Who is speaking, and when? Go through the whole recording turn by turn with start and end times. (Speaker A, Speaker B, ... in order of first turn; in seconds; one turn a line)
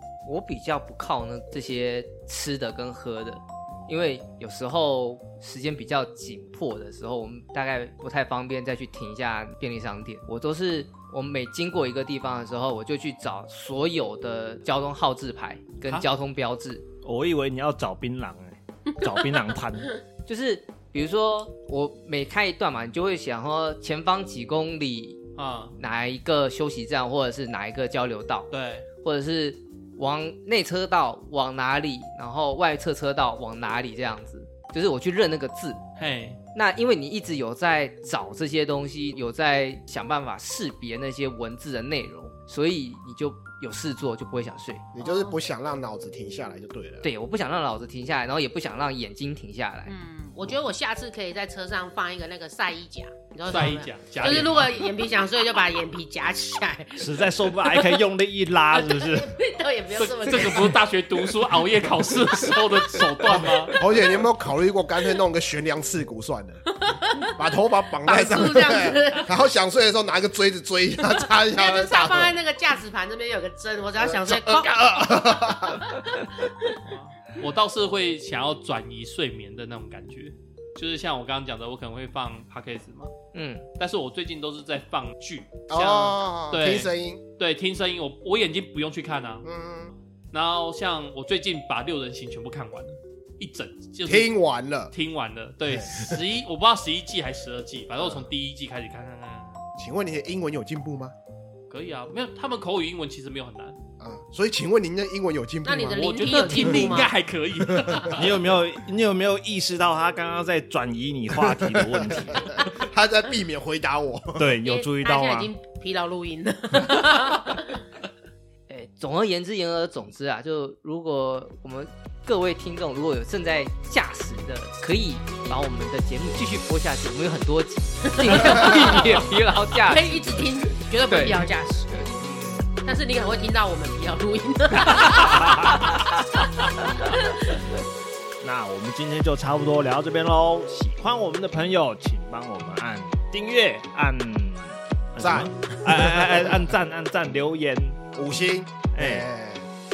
Speaker A: 0.2-16.8
Speaker B: 15.8-16.1
Speaker C: 17.0-19.9
Speaker A: 20.2-25.2
Speaker B: 25.4-25.8
Speaker A: 25.8-35.8
Speaker B: 28.5-28.9
Speaker B: 36.0-36.4
Speaker A: 36.5-44.9
Speaker D: 44.9-47.1
Speaker E: 45.0-45.4
Speaker A: 47.0-49.9
Speaker E: 49.8-58.0
Speaker B: 53.4-54.7
Speaker C: 57.0-59.3
Speaker E: 58.7-60.8
Speaker B: 60.0-63.8
Speaker D: 63.4-66.6
Speaker E: 66.7-67.4
Speaker D: 67.3-72.4
Speaker E: 68.0-69.3
Speaker E: 71.0-76.8
Speaker D: 74.0-75.9
Speaker B: 76.8-83.1
Speaker A: 83.3-83.6
Speaker B: 83.8-89.5
Speaker D: 85.7-87.2
Speaker D: 89.4-89.9
Speaker B: 90.3-94.3
Speaker D: 94.0-94.9
Speaker B: 94.9-99.6
Speaker D: 95.6-96.2
Speaker D: 98.0-98.3
Speaker D: 99.8-101.1
Speaker B: 101.7-103.8
Speaker D: 104.0-107.1
Speaker E: 105.6-107.1
Speaker B: 105.9-108.3
Speaker D: 107.7-108.2
Speaker C: 108.2-112.5
Speaker D: 111.4-114.5
Speaker C: 114.4-115.5
Speaker E: 114.6-117.8
Speaker A: 118.7-131.4
Speaker E: 128.0-129.2
Speaker E: 129.8-132.1
Speaker E: 132.8-135.7
Speaker C: 135.0-135.7
Speaker E: 137.0-137.7
Speaker C: 138.4-148.0
Speaker D: 145.2-146.7
Speaker D: 148.1-149.7
Speaker C: 148.9-149.3